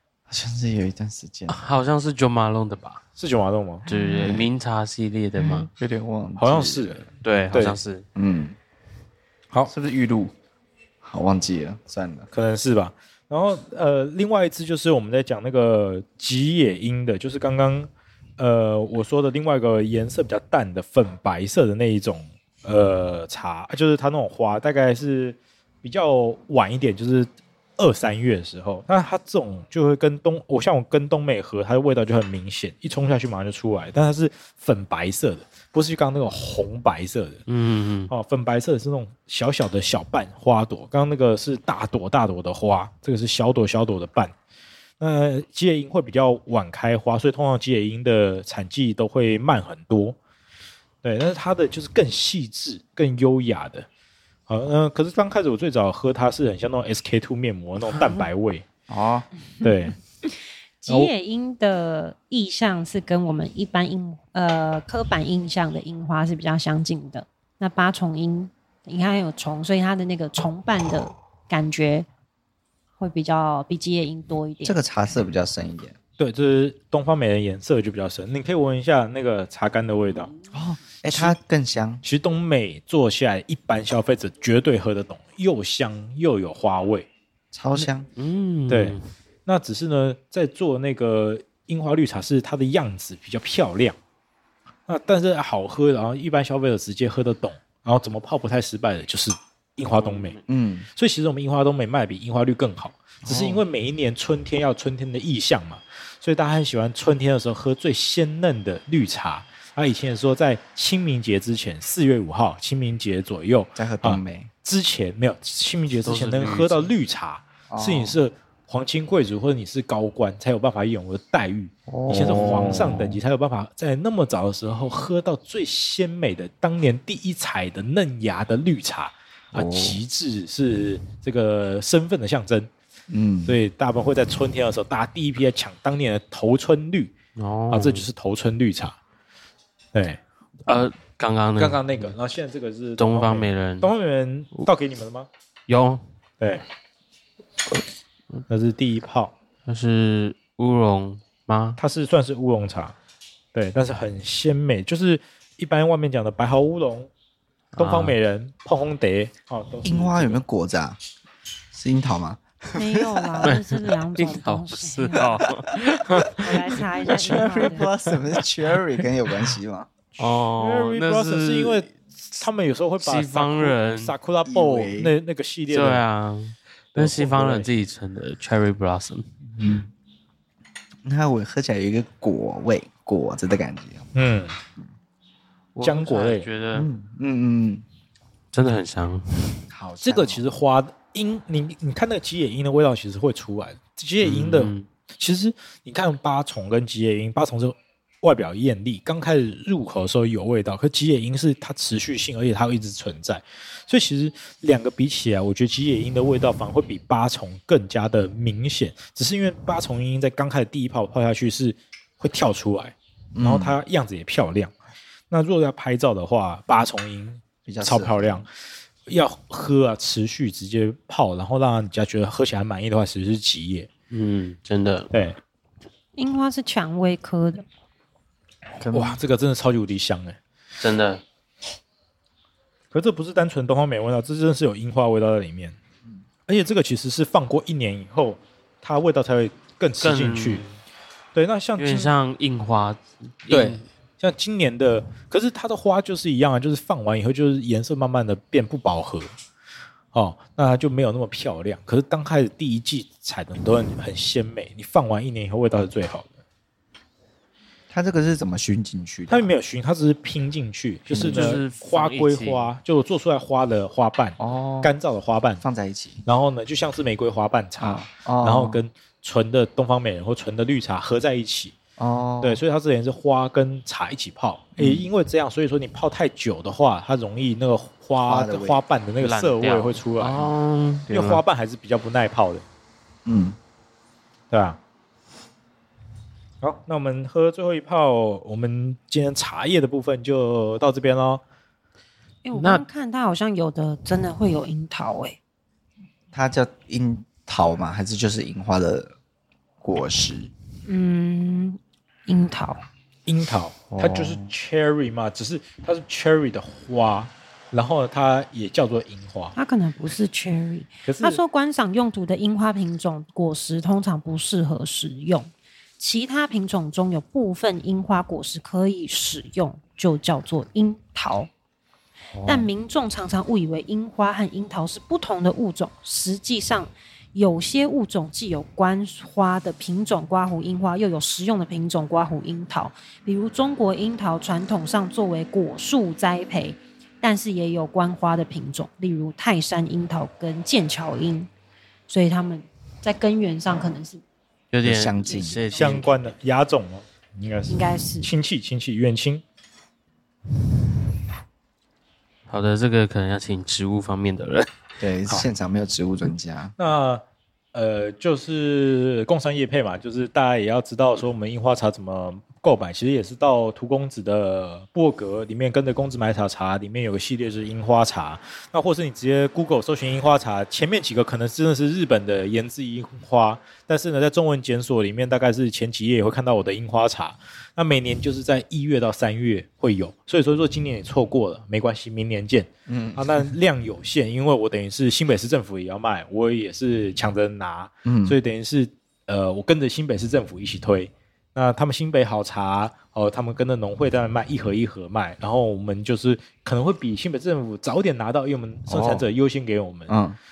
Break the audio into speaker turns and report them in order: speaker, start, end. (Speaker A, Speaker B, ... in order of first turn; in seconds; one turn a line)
Speaker A: 0.3-1.6
Speaker B: 1.5-3.0
Speaker C: 3.2-3.9
Speaker A: 3.9-4.5
Speaker B: 3.9-5.7
Speaker A: 5.4-7.1
Speaker C: 6.4-7.0
Speaker B: 7.2-8.1
Speaker A: 8.2-8.6
Speaker A: 9.7-10.3
Speaker A: 11.0-12.3
Speaker C: 12.3-37.4
Speaker B: 37.5-38.1
Speaker C: 38.1-44.3
Speaker C: 45.0-50.2
Speaker C: 51.0-53.9
Speaker C: 54.5-58.7
Speaker A: 58.9-59.3
Speaker C: 59.6-60.0
Speaker D: 60.2-72.1
Speaker D: 73.0-74.8
Speaker A: 74.7-76.0
Speaker C: 76.2-80.3
Speaker A: 80.5-82.0
Speaker C: 81.1-81.4
Speaker C: 82.0-87.1
Speaker A: 87.5-88.1
Speaker B: 88.2-89.0
Speaker C: 88.7-94.0
Speaker C: 94.9-100.4
Speaker B: 99.9-100.4
Speaker A: 100.5-100.9
Speaker C: 101.0-132.7
Speaker A: 103.2-103.6
Speaker A: 113.8-114.5
Speaker B: 116.0-116.9
Speaker A: 117.7-118.2
Speaker A: 121.9-123.2
Speaker B: 122.1-123.1
Speaker A: 129.5-130.0
Speaker A: 133.1-133.6
Speaker C: 133.5-137.1
Speaker B: 137.4-138.1
Speaker C: 137.7-139.0
Speaker C: 139.9-140.2
Speaker B: 140.7-142.1
Speaker C: 141.6-145.3
Speaker B: 143.0-143.9
Speaker B: 145.7-146.0
Speaker C: 148.5-149.3
Speaker B: 149.7-151.8
Speaker C: 151.8-152.9
Speaker C: 153.5-157.1
Speaker B: 157.7-158.2
Speaker C: 157.8-160.4
Speaker A: 159.8-161.0
Speaker A: 161.7-162.4
Speaker D: 162.8-165.5
Speaker B: 163.4-168.8
Speaker D: 166.3-167.8
Speaker A: 167.1-169.9
Speaker B: 170.2-171.9
Speaker C: 170.2-176.0
Speaker B: 173.0-174.1
Speaker A: 174.5-175.1
Speaker B: 175.7-179.3
Speaker C: 176.9-177.7
Speaker A: 179.6-179.9
Speaker A: 181.0-184.1
Speaker C: 184.2-184.6
Speaker B: 185.8-186.9
Speaker C: 185.8-186.5
Speaker A: 186.7-187.8
Speaker B: 188.5-189.6
Speaker A: 189.7-190.4
Speaker C: 190.0-214.7
Speaker B: 194.2-194.9
Speaker A: 213.3-213.8
Speaker C: 215.3-218.5
Speaker A: 217.7-218.4
Speaker C: 219.1-223.9
Speaker B: 224.1-225.1
Speaker C: 225.1-225.4
Speaker D: 226.2-227.7
Speaker A: 228.8-229.2
Speaker C: 228.9-230.4
Speaker B: 230.8-231.2
Speaker C: 232.9-235.8
Speaker C: 236.5-240.7
Speaker B: 240.0-240.8
Speaker C: 241.3-242.1
Speaker B: 241.8-243.9
Speaker A: 243.5-243.8
Speaker C: 244.2-249.3
Speaker C: 250.1-256.3
Speaker A: 257.9-259.5
Speaker C: 259.3-265.6
Speaker A: 261.1-261.6
Speaker B: 261.1-262.7
Speaker A: 264.4-264.9
Speaker A: 265.6-266.2
Speaker C: 266.2-271.8
Speaker A: 267.8-268.8
Speaker A: 272.0-272.6
Speaker C: 272.4-280.5
Speaker A: 274.8-275.1
Speaker A: 278.2-278.8
Speaker B: 279.2-281.1
Speaker A: 281.1-281.4
Speaker C: 281.1-282.6
Speaker A: 283.2-283.6
Speaker C: 284.5-284.8
Speaker C: 286.6-291.4
Speaker D: 292.4-295.4
Speaker B: 292.6-292.9
Speaker A: 296.3-299.2
Speaker A: 299.8-300.5
Speaker D: 300.9-302.8
Speaker C: 303.3-309.6
Speaker A: 303.9-304.5
Speaker D: 309.6-321.5
Speaker C: 311.1-311.4
Speaker A: 322.3-322.7
Speaker D: 322.5-341.5
Speaker D: 342.1-344.2
Speaker B: 344.7-346.1
Speaker A: 344.8-345.8
Speaker D: 345.2-346.3
Speaker C: 345.8-349.4
Speaker D: 347.7-348.3
Speaker B: 352.5-354.7
Speaker A: 355.0-356.8
Speaker C: 356.8-357.2
Speaker C: 357.7-400.2
Speaker A: 382.9-383.5
Speaker A: 388.1-388.4
Speaker A: 398.9-399.3
Speaker A: 400.1-400.4